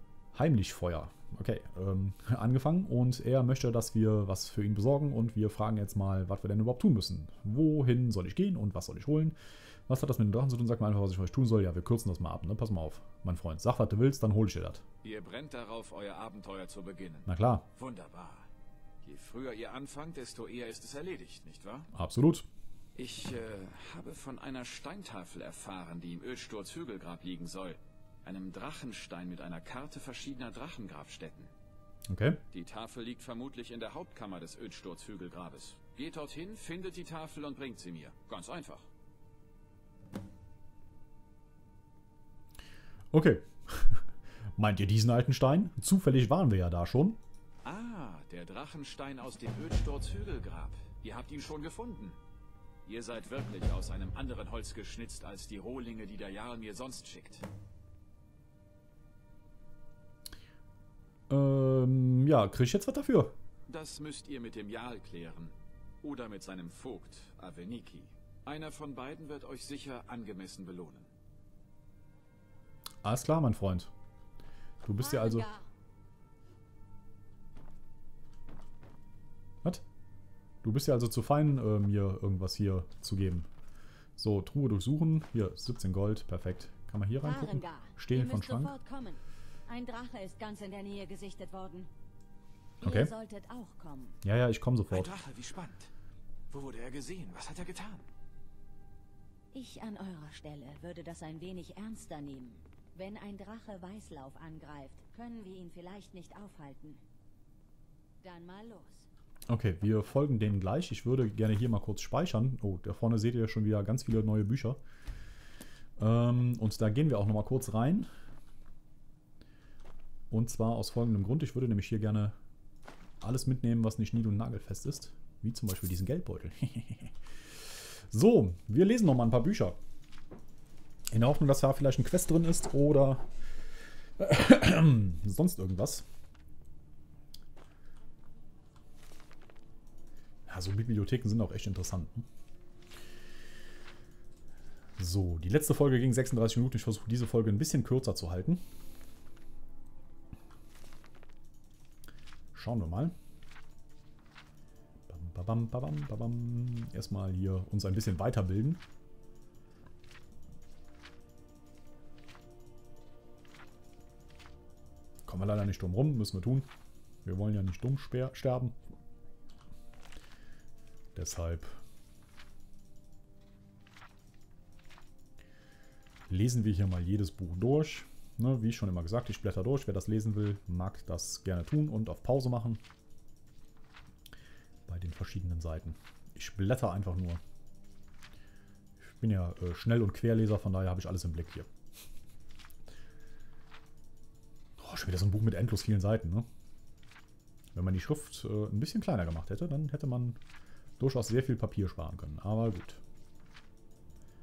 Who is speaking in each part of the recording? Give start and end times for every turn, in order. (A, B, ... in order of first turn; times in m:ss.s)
0:00.3-0:09.4 A
0:09.9-0:14.8 A
0:15.0-0:18.5 B
0:17.3-0:17.7 A
0:19.0-0:21.9 B
0:21.9-0:22.5 A
0:23.0-0:31.5 B
0:32.1-0:32.4 A
0:32.5-0:38.9 B
0:43.1-0:47.2 A
0:47.6-0:52.2 B
0:52.8-0:57.5 B
1:01.3-1:03.4 A
1:03.7-1:11.1 B
1:13.0-1:13.9 A
1:14.8-1:15.5 A
1:15.0-1:15.6 C
1:20.6-1:23.5 A
1:24.2-1:28.8 A
1:27.2-1:31.9 C
1:32.8-1:33.1 A
1:32.8-1:34.2 C
1:34.2-1:35.2 A
1:34.9-1:35.9 B
1:36.5-1:38.1 B
1:39.5-1:47.0 C
1:48.2-1:49.1 C
1:49.5-1:54.8 A
1:56.0-1:58.1 A
2:00.3-2:02.4 A
2:03.2-2:09.8 A
2:11.1-2:13.3 A
2:14.2-2:16.1 A
2:20.5-2:22.3 A
2:25.0-2:28.6 A
2:32.5-2:33.2 A
2:35.1-2:38.8 A
2:45.3-2:46.7 A
2:47.2-2:48.8 A
2:51.2-2:51.8 A
2:56.3-3:02.8 A
3:04.9-3:07.4 A
3:09.0-3:11.7 A
3:14.8-3:16.5 A
3:17.7-3:20.4 A
3:21.0-3:23.0 A